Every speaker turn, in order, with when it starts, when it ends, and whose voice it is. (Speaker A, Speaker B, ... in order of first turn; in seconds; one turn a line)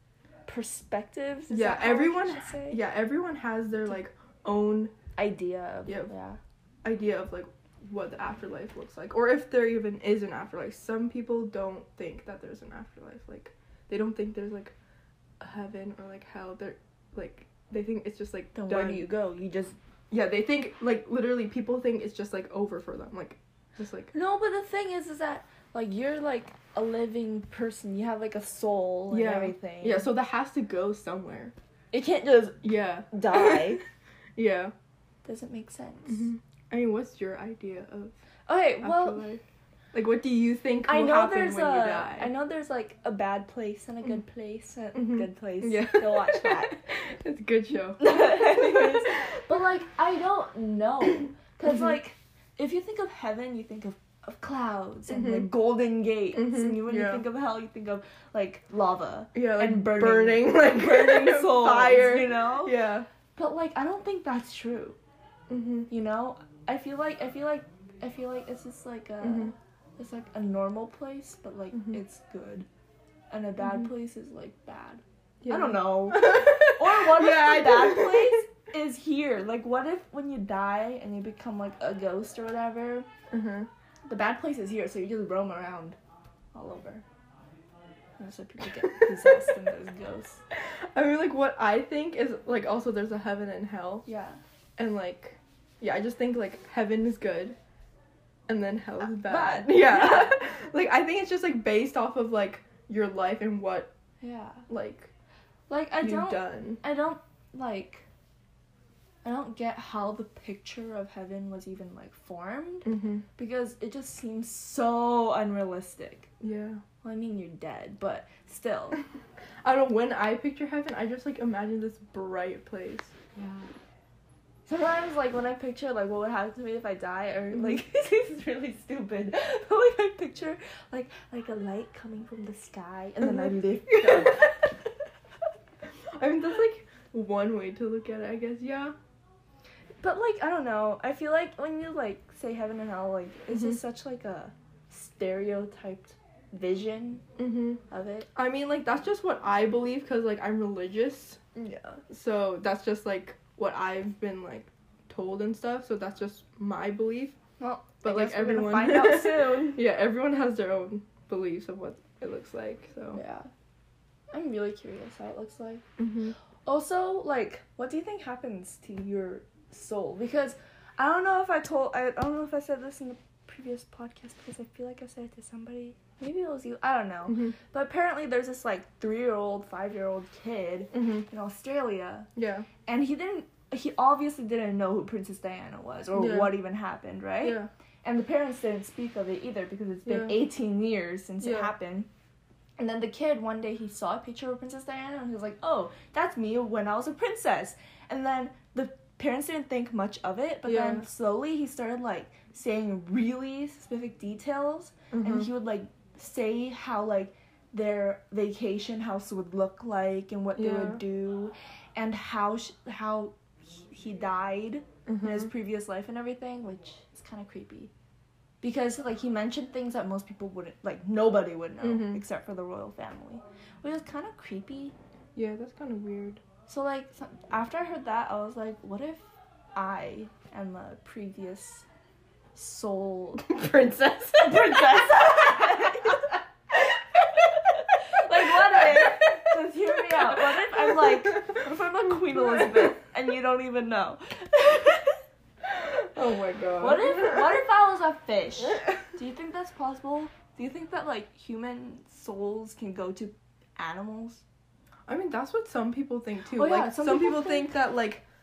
Speaker A: 0.5-2.8
Speaker B: 1.5-4.9
Speaker A: 5.2-6.4
Speaker B: 5.8-6.1
Speaker B: 6.8-14.7
Speaker B: 15.4-19.1
Speaker A: 18.6-19.8
Speaker B: 20.1-24.1
Speaker A: 24.1-30.1
Speaker B: 29.1-31.5
Speaker A: 31.9-33.8
Speaker B: 32.6-33.8
Speaker B: 34.4-34.7
Speaker A: 35.2-36.3
Speaker B: 36.1-38.2
Speaker A: 38.5-39.3
Speaker B: 38.8-39.4
Speaker B: 39.9-42.3
Speaker A: 40.9-46.8
Speaker B: 44.9-49.4
Speaker A: 48.0-62.7
Speaker B: 51.6-52.0
Speaker B: 55.1-55.5
Speaker B: 56.3-57.2
Speaker B: 59.4-63.1
Speaker A: 63.4-65.0
Speaker B: 65.5-65.9
Speaker A: 65.9-72.7
Speaker B: 69.2-69.5
Speaker B: 71.7-72.0
Speaker A: 73.3-83.1
Speaker B: 75.4-78.4
Speaker B: 83.3-83.7
Speaker A: 84.1-86.0
Speaker A: 86.5-87.0
Speaker A: 88.2-90.4
Speaker B: 89.2-89.5
Speaker B: 90.5-94.1
Speaker A: 94.1-94.4
Speaker B: 94.8-97.6
Speaker B: 98.5-103.9
Speaker A: 99.0-100.4
Speaker A: 104.2-104.7
Speaker B: 104.7-105.1
Speaker A: 105.7-108.0
Speaker B: 106.0-106.8
Speaker A: 109.2-116.3
Speaker B: 112.8-113.2
Speaker B: 116.4-116.8
Speaker A: 117.0-119.0
Speaker B: 119.6-123.4
Speaker A: 123.4-123.7
Speaker A: 124.7-134.8
Speaker B: 133.2-134.4
Speaker B: 136.1-138.9
Speaker A: 140.0-147.2
Speaker B: 143.5-143.8
Speaker B: 147.4-147.8
Speaker A: 147.9-148.3
Speaker B: 148.3-151.4
Speaker A: 151.6-152.0
Speaker B: 152.1-157.4
Speaker A: 157.6-159.8
Speaker B: 158.0-163.2
Speaker A: 163.1-163.5
Speaker A: 164.3-165.8
Speaker B: 166.0-166.3
Speaker A: 166.6-182.3
Speaker B: 177.3-177.5
Speaker B: 180.9-181.2
Speaker B: 182.3-182.7
Speaker A: 182.8-192.1
Speaker B: 186.1-186.6
Speaker B: 187.4-187.7
Speaker B: 190.1-190.4
Speaker B: 191.4-191.7
Speaker A: 192.8-217.9
Speaker B: 200.7-201.1
Speaker B: 205.1-205.5
Speaker B: 210.6-211.0
Speaker B: 215.1-215.5
Speaker A: 218.6-224.9
Speaker B: 221.8-222.2
Speaker B: 225.3-226.4
Speaker A: 226.7-231.8
Speaker A: 232.6-233.5
Speaker B: 233.4-242.9
Speaker A: 234.4-236.2
Speaker A: 238.0-245.2
Speaker B: 245.7-247.5
Speaker A: 246.8-254.4
Speaker B: 255.1-258.2
Speaker A: 256.5-257.7